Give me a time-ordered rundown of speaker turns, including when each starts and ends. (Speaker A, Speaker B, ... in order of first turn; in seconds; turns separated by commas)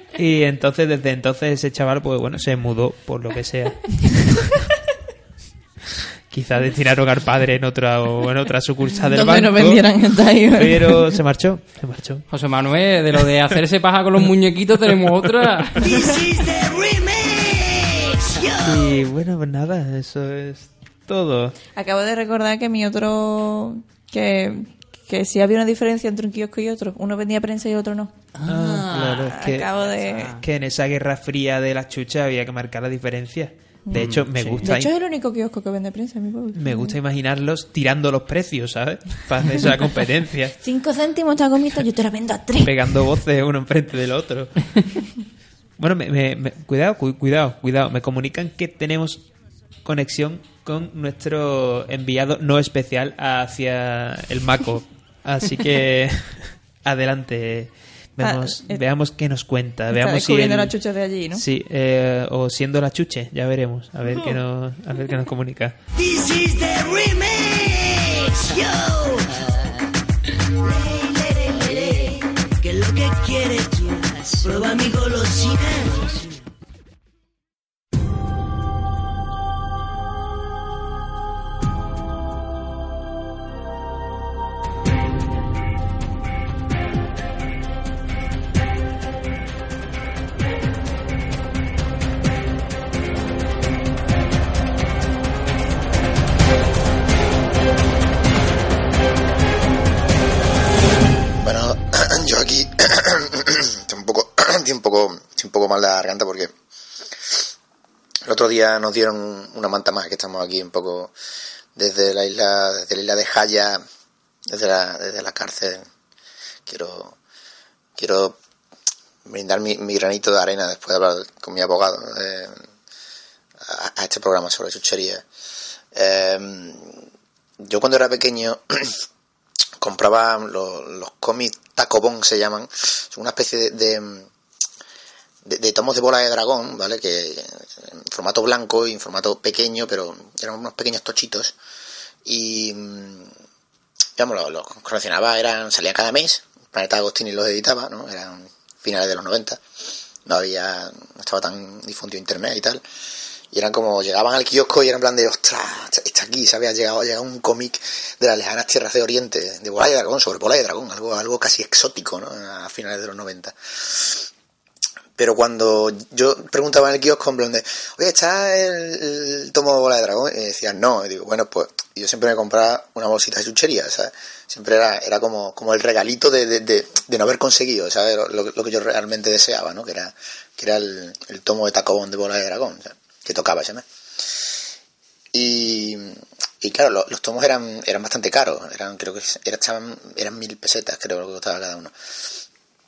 Speaker A: 0.1-4.5, Speaker A: 6.3-9.8, Speaker B: 9.1-11.1, Speaker A: 10.5-12.2, Speaker C: 12.3-15.8, Speaker A: 13.1-13.6, Speaker D: 15.8-19.0, Speaker A: 18.6-21.6, Speaker B: 21.7-28.1, Speaker C: 28.4-29.3, Speaker A: 28.4-34.9, Speaker B: 29.0-30.3, Speaker C: 30.0-30.4, Speaker C: 33.9-34.6, Speaker B: 34.6-37.0, Speaker A: 36.5-40.5, Speaker B: 40.6-43.0, Speaker A: 42.6-44.8, Speaker A: 45.8-49.2, Speaker A: 49.8-60.7, Speaker B: 58.2-58.8, Speaker B: 59.9-61.4, Speaker A: 61.3-65.8, Speaker D: 65.9-69.7, Speaker D: 70.6-76.4, Speaker E: 101.4-106.5, Speaker E: 108.2-111.1, Speaker E: 111.8-113.8, Speaker E: 114.5-115.8, Speaker E: 116.7-117.2, Speaker E: 118.0-118.4, Speaker E: 119.3-122.6, Speaker E: 123.6-125.2, Speaker E: 125.9-127.0, Speaker E: 127.6-129.0, Speaker E: 129.8-134.3, Speaker E: 135.4-141.5, Speaker E: 142.2-143.3, Speaker E: 144.2-149.6, Speaker E: 150.2-152.8, Speaker E: 153.5-164.2, Speaker E: 165.2-183.8, Speaker E: 185.3-191.9